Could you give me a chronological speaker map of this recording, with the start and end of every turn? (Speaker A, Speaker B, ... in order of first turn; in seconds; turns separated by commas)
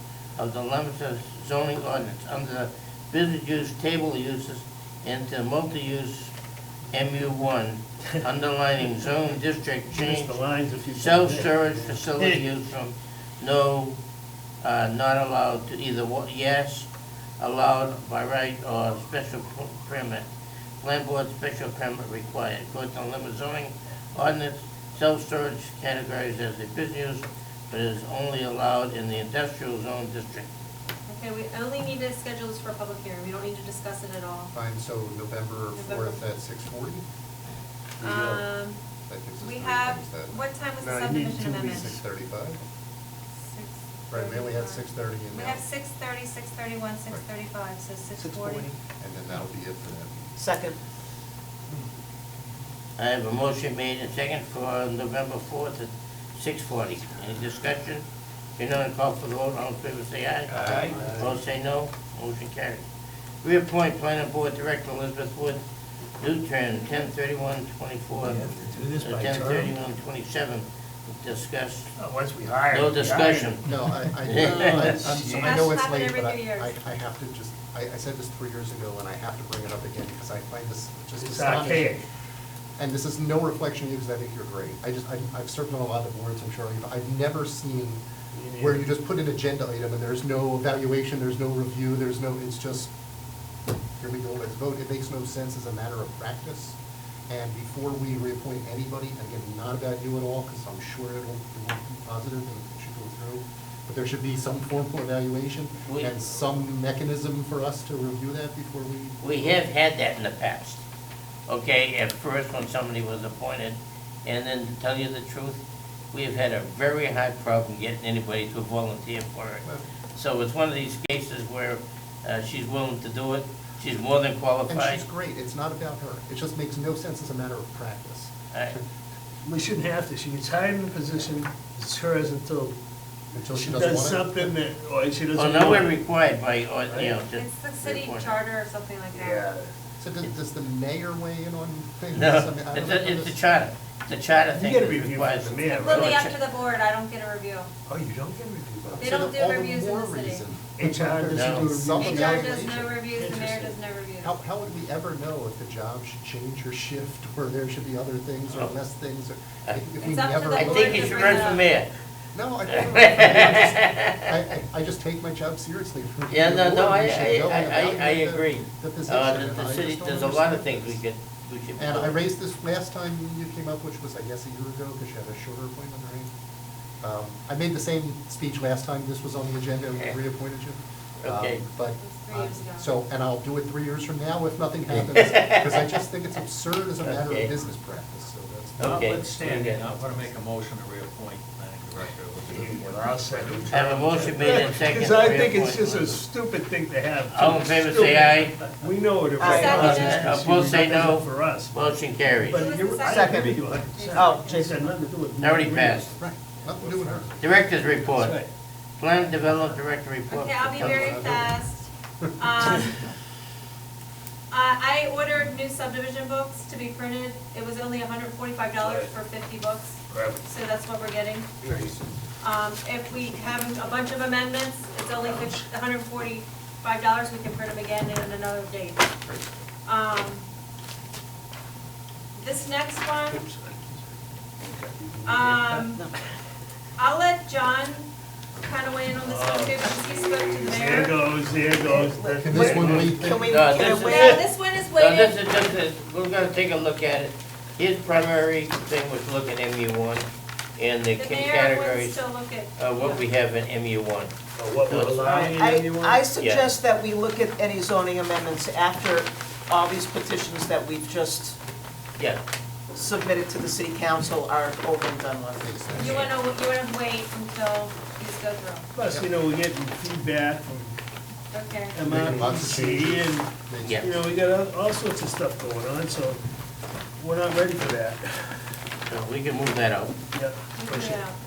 Speaker A: 0.4-6.3, Speaker A: 6.9-10.4, Speaker B: 9.9-12.4, Speaker A: 10.9-14.0, Speaker A: 14.6-16.9, Speaker A: 17.4-20.3, Speaker A: 20.8-30.5, Speaker C: 31.1-34.5, Speaker D: 34.5-37.0, Speaker C: 35.7-36.2, Speaker B: 38.0-38.4, Speaker C: 38.0-38.8, Speaker D: 39.1-40.4, Speaker C: 39.4-42.0, Speaker B: 40.8-41.8, Speaker D: 41.5-42.6, Speaker C: 43.5-48.7, Speaker D: 44.1-45.6, Speaker E: 48.2-48.8, Speaker D: 49.0-50.4, Speaker E: 50.4-50.8, Speaker A: 53.0-58.0, Speaker A: 58.6-62.8, Speaker F: 60.5-61.1, Speaker A: 63.4-65.6, Speaker A: 66.2-71.9, Speaker B: 68.2-69.8, Speaker B: 72.0-73.7, Speaker A: 72.7-73.7, Speaker D: 73.6-82.0, Speaker A: 74.2-75.0, Speaker B: 74.4-75.6, Speaker C: 75.3-76.7, Speaker B: 81.2-82.0, Speaker D: 82.8-88.0, Speaker B: 88.3-88.8, Speaker D: 88.6-92.9, Speaker D: 94.0-96.8, Speaker D: 97.3-109.2, Speaker A: 105.9-106.1, Speaker A: 109.2-110.8, Speaker A: 111.5-125.0, Speaker D: 124.7-128.3, Speaker A: 128.5-128.8, Speaker B: 129.4-132.8, Speaker D: 133.3-134.5, Speaker B: 133.5-136.0, Speaker A: 135.3-138.3, Speaker B: 136.9-137.2, Speaker C: 137.3-139.5, Speaker B: 139.1-139.7, Speaker D: 140.0-143.4, Speaker A: 142.1-146.4, Speaker B: 144.5-146.2, Speaker C: 145.8-147.7, Speaker B: 147.9-149.1, Speaker D: 148.9-153.0, Speaker C: 149.0-150.5, Speaker B: 150.8-152.4, Speaker A: 151.3-151.7, Speaker C: 152.0-154.4, Speaker B: 153.1-153.7, Speaker D: 154.2-161.6, Speaker C: 160.0-161.6, Speaker A: 160.6-161.9, Speaker D: 162.3-171.0, Speaker A: 162.7-164.2, Speaker A: 166.3-172.2, Speaker D: 171.8-176.3, Speaker D: 177.0-189.1, Speaker A: 181.2-181.6, Speaker C: 182.0-182.9, Speaker A: 184.9-186.0, Speaker A: 187.0-187.5, Speaker A: 188.8-189.9, Speaker F: 188.8-193.9, Speaker B: 192.4-206.1, Speaker A: 193.7-196.2, Speaker A: 197.3-198.6, Speaker E: 199.4-200.2, Speaker C: 199.4-200.4, Speaker A: 199.6-202.8, Speaker C: 202.4-204.6, Speaker E: 203.0-205.0, Speaker A: 205.4-206.1, Speaker D: 206.0-207.4, Speaker F: 206.8-207.3, Speaker A: 207.4-208.4, Speaker B: 208.1-208.5, Speaker A: 209.0-211.4, Speaker C: 210.3-212.9, Speaker D: 210.8-211.5, Speaker D: 212.2-212.5, Speaker C: 214.5-221.5, Speaker B: 218.8-219.1, Speaker B: 220.1-220.4, Speaker B: 221.6-222.0, Speaker C: 222.4-229.1, Speaker B: 225.1-225.6, Speaker C: 229.8-230.5, Speaker C: 232.3-233.4, Speaker B: 233.3-236.0, Speaker C: 235.2-236.0, Speaker C: 237.0-238.1, Speaker C: 238.6-241.2, Speaker B: 239.2-243.2, Speaker E: 241.8-244.4, Speaker D: 242.4-243.6, Speaker A: 242.8-252.2, Speaker C: 243.7-245.6, Speaker C: 251.2-253.2, Speaker A: 252.8-254.3, Speaker B: 254.6-256.3, Speaker A: 254.9-255.5, Speaker E: 255.2-261.6, Speaker A: 256.4-256.7, Speaker E: 262.9-266.1, Speaker D: 265.6-266.3, Speaker C: 265.9-268.9, Speaker B: 268.9-271.0, Speaker C: 271.5-272.0, Speaker B: 271.9-276.4, Speaker D: 272.0-274.1, Speaker A: 273.8-274.1, Speaker B: 277.2-278.5, Speaker A: 279.1-280.1, Speaker B: 280.3-281.2, Speaker C: 280.8-281.3